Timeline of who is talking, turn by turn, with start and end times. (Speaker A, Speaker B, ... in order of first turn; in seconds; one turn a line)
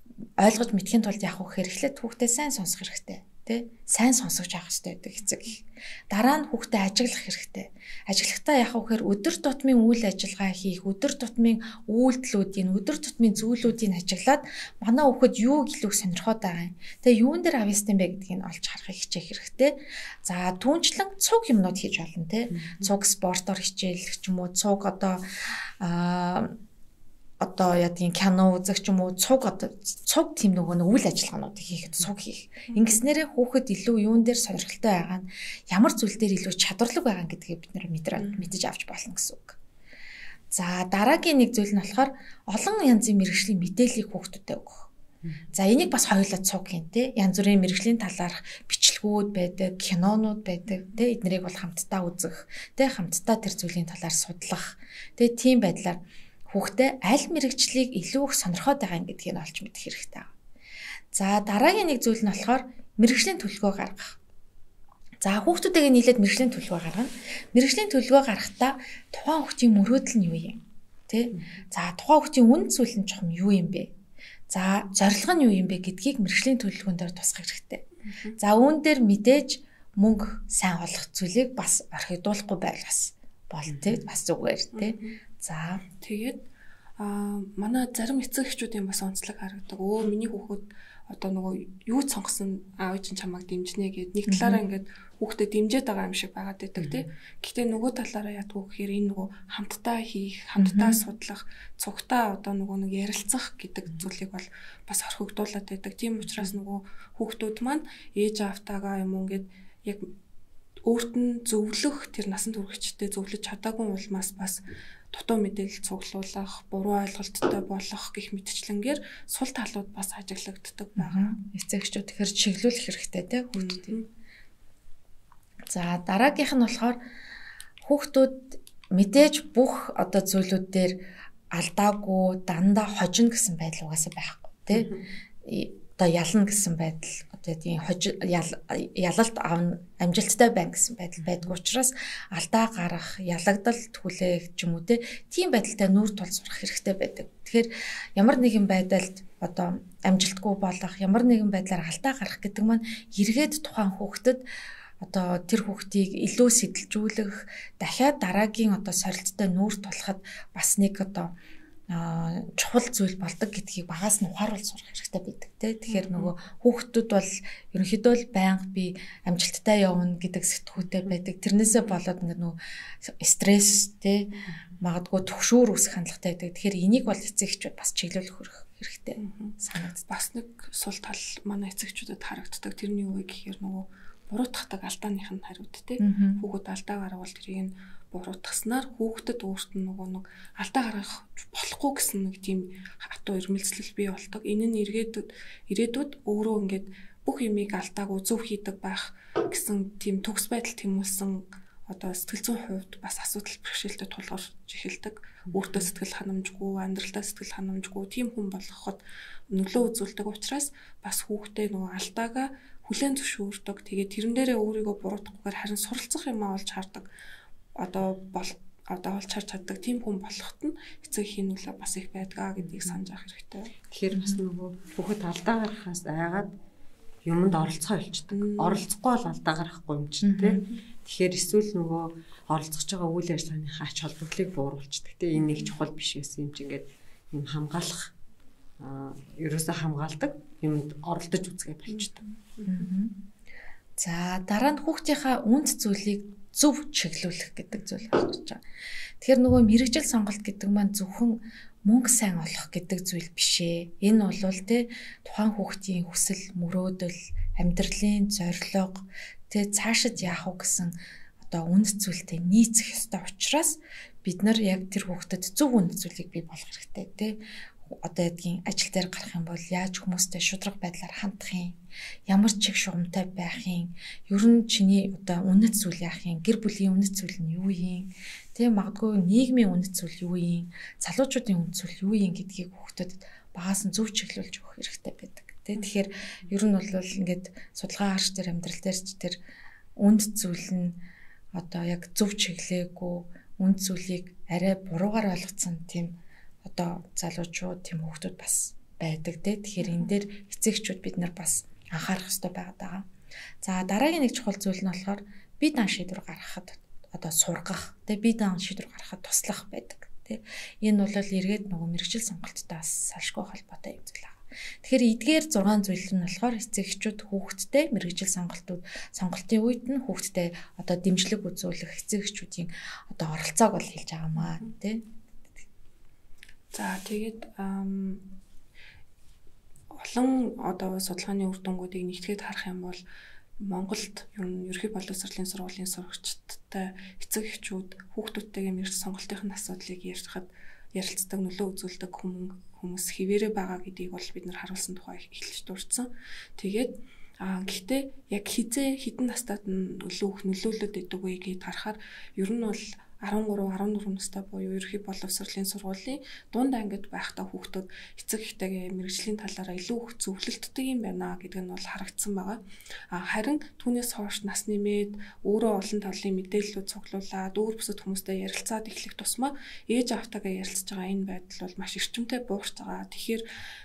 Speaker A: 0.4-26.5
Speaker B: 22.5-22.9
Speaker A: 27.4-39.6
Speaker C: 32.7-33.0
Speaker C: 38.2-38.5
Speaker A: 40.5-44.9
Speaker A: 45.5-60.3
Speaker A: 61.1-64.2
Speaker A: 65.2-73.9
Speaker B: 71.3-71.6
Speaker A: 74.5-77.9
Speaker C: 78.0-78.4
Speaker A: 78.4-85.8
Speaker B: 83.7-84.0
Speaker C: 84.7-85.2
Speaker C: 85.9-86.4
Speaker C: 87.0-110.1
Speaker A: 94.3-94.6
Speaker B: 96.8-97.0
Speaker A: 100.6-101.0
Speaker C: 110.8-121.3
Speaker A: 121.0-124.0
Speaker C: 123.5-124.1
Speaker A: 125.7-127.0
Speaker A: 127.8-130.9
Speaker A: 131.5-134.9
Speaker B: 134.7-135.1
Speaker A: 135.5-154.4
Speaker B: 141.2-141.5
Speaker A: 155.0-161.3
Speaker A: 161.9-174.3
Speaker C: 165.9-166.3
Speaker A: 174.8-180.1
Speaker C: 179.2-217.1
Speaker A: 186.0-186.4
Speaker B: 205.5-205.8
Speaker C: 217.8-223.7
Speaker B: 223.9-226.5
Speaker A: 224.1-224.4
Speaker B: 227.2-238.1
Speaker C: 228.3-228.9
Speaker A: 230.2-230.7
Speaker C: 235.3-235.7
Speaker B: 238.8-242.1
Speaker C: 241.9-242.9
Speaker A: 242.7-243.1
Speaker A: 244.0-248.6
Speaker A: 249.2-271.8
Speaker A: 272.3-289.4
Speaker A: 290.0-291.0
Speaker A: 291.5-303.1
Speaker C: 299.8-300.1
Speaker A: 303.6-325.0
Speaker C: 324.4-324.7
Speaker C: 326.7-328.3
Speaker C: 329.9-333.0
Speaker C: 333.6-373.4